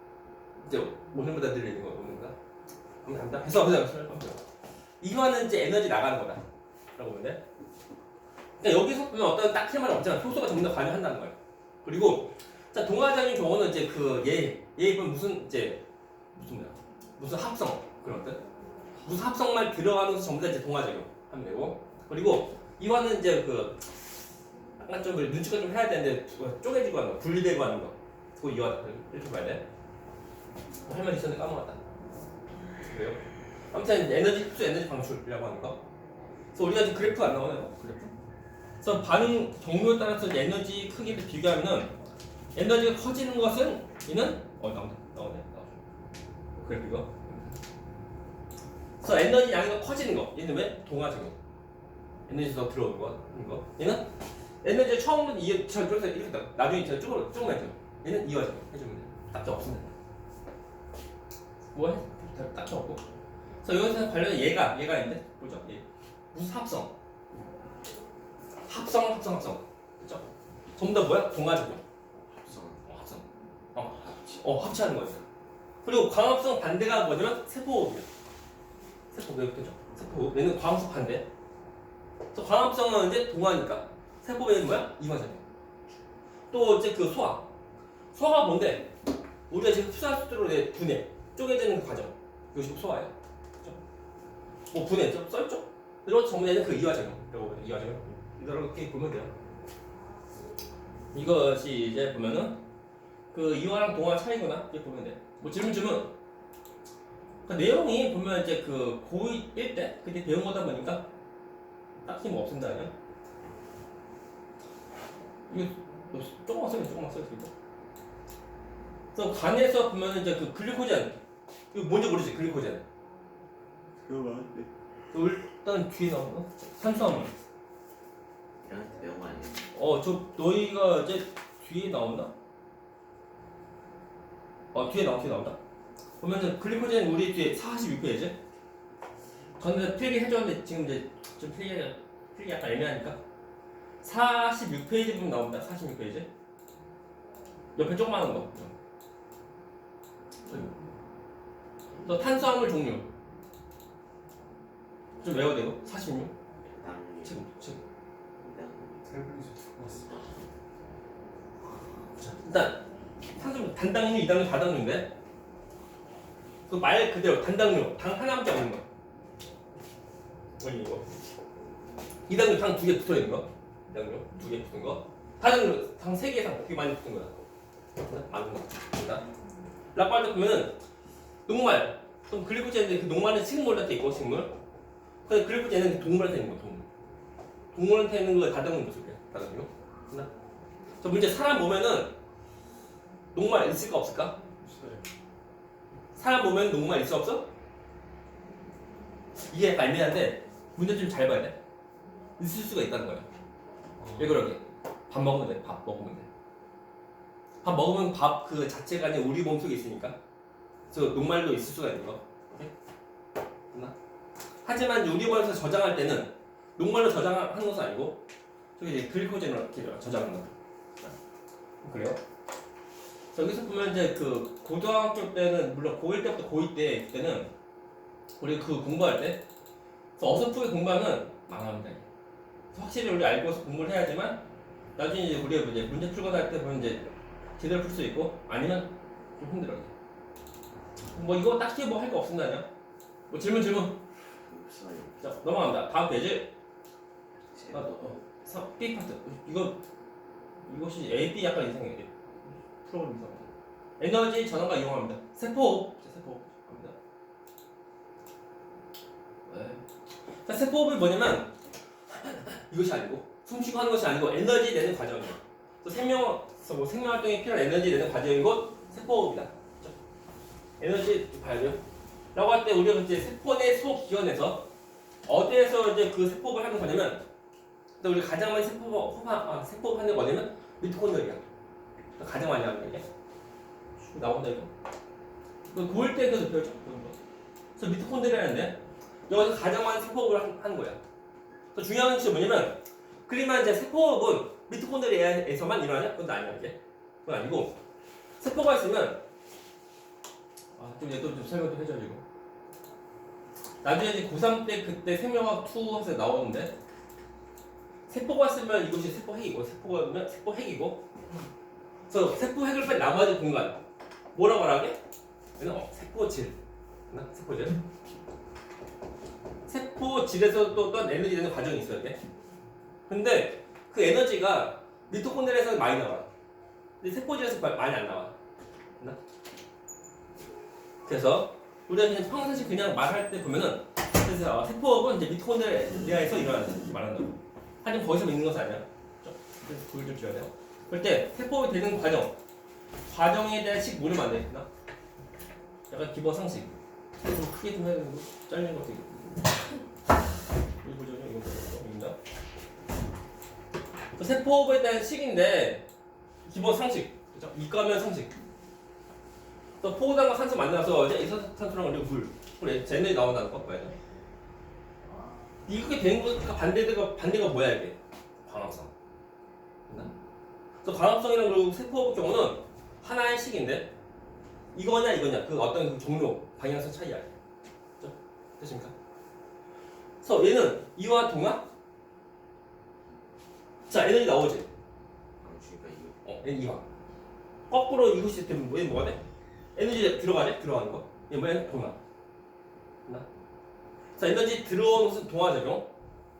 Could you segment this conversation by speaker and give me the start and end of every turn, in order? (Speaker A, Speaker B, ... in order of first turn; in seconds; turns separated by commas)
Speaker A: 0.6-2.4, Speaker A: 3.0-4.4, Speaker A: 5.0-6.4, Speaker A: 7.0-7.4, Speaker A: 8.6-18.4, Speaker A: 19.0-23.8, Speaker A: 24.8-29.6, Speaker A: 30.8-31.8, Speaker A: 32.8-35.8, Speaker A: 36.5-38.1, Speaker A: 38.8-42.0, Speaker A: 42.5-45.8, Speaker A: 46.6-47.5, Speaker A: 49.0-51.4, Speaker A: 52.3-54.1, Speaker A: 54.6-59.9, Speaker A: 61.7-63.0, Speaker A: 63.6-66.9, Speaker A: 68.6-71.8, Speaker B: 72.2-72.9, Speaker A: 72.8-75.2, Speaker B: 73.8-74.6, Speaker A: 75.8-78.1, Speaker A: 79.1-81.3, Speaker A: 82.3-85.4, Speaker A: 86.5-87.5, Speaker A: 88.1-88.9, Speaker A: 89.5-93.8, Speaker A: 94.7-99.3, Speaker A: 101.1-102.6, Speaker A: 103.3-106.1, Speaker A: 107.4-111.1, Speaker A: 112.0-112.9, Speaker A: 115.5-117.5, Speaker A: 119.1-121.2, Speaker A: 121.7-122.8, Speaker C: 124.1-124.7, Speaker B: 124.1-124.6, Speaker A: 125.1-127.3, Speaker B: 128.6-129.7, Speaker A: 129.7-132.3, Speaker A: 134.7-135.6, Speaker A: 136.2-138.4, Speaker A: 139.6-143.2, Speaker A: 144.0-146.3, Speaker A: 147.8-148.7, Speaker A: 150.5-150.7, Speaker A: 152.0-153.1, Speaker A: 155.2-156.3, Speaker B: 156.7-157.4, Speaker A: 157.2-157.8, Speaker B: 158.4-159.2, Speaker C: 159.0-160.1, Speaker B: 159.8-160.4, Speaker A: 162.2-162.8, Speaker A: 163.3-165.1, Speaker A: 166.7-168.8, Speaker A: 170.6-171.1, Speaker A: 172.3-177.3, Speaker A: 178.0-179.2, Speaker A: 179.9-180.8, Speaker A: 181.5-184.5, Speaker A: 185.2-186.8, Speaker A: 187.7-190.3, Speaker A: 191.0-192.1, Speaker A: 193.3-194.4, Speaker C: 194.6-195.0, Speaker A: 196.1-197.5, Speaker A: 199.5-201.6, Speaker A: 202.4-203.3, Speaker C: 204.0-204.3, Speaker A: 204.1-206.3, Speaker A: 207.6-210.2, Speaker A: 210.9-212.7, Speaker A: 214.6-218.2, Speaker A: 218.8-221.1, Speaker A: 221.8-222.2, Speaker A: 223.3-227.5, Speaker A: 228.4-229.4, Speaker A: 230.2-232.1, Speaker A: 232.7-234.4, Speaker A: 235.0-239.9, Speaker A: 241.1-242.7, Speaker A: 243.3-244.0, Speaker B: 244.4-245.2, Speaker A: 245.2-246.5, Speaker B: 247.5-248.2, Speaker A: 247.7-249.8, Speaker A: 250.7-256.9, Speaker A: 259.5-259.9, Speaker A: 260.4-261.5, Speaker A: 262.1-269.9, Speaker A: 270.8-271.8, Speaker A: 272.3-274.7, Speaker A: 275.2-277.2, Speaker A: 278.0-281.4, Speaker A: 282.2-283.1, Speaker A: 284.0-284.7, Speaker A: 285.7-287.2, Speaker A: 287.8-291.0, Speaker A: 291.7-297.8, Speaker A: 298.4-299.2, Speaker A: 300.8-302.2, Speaker A: 303.8-306.7, Speaker A: 308.1-311.1, Speaker A: 312.1-313.8, Speaker A: 314.3-315.0, Speaker A: 315.6-316.6, Speaker A: 317.1-317.8, Speaker A: 319.7-322.2, Speaker A: 323.1-326.3, Speaker A: 327.0-328.4, Speaker A: 331.1-342.3, Speaker A: 343.1-344.7, Speaker A: 345.9-352.2, Speaker A: 354.2-355.9, Speaker A: 356.4-358.3, Speaker A: 359.8-363.9, Speaker A: 365.7-368.9, Speaker A: 370.8-373.9, Speaker A: 374.7-377.4, Speaker A: 378.0-378.9, Speaker A: 380.2-381.7, Speaker A: 383.9-384.7, Speaker B: 385.4-386.2, Speaker A: 386.2-386.9, Speaker A: 387.7-389.2, Speaker A: 389.7-392.0, Speaker A: 394.2-395.9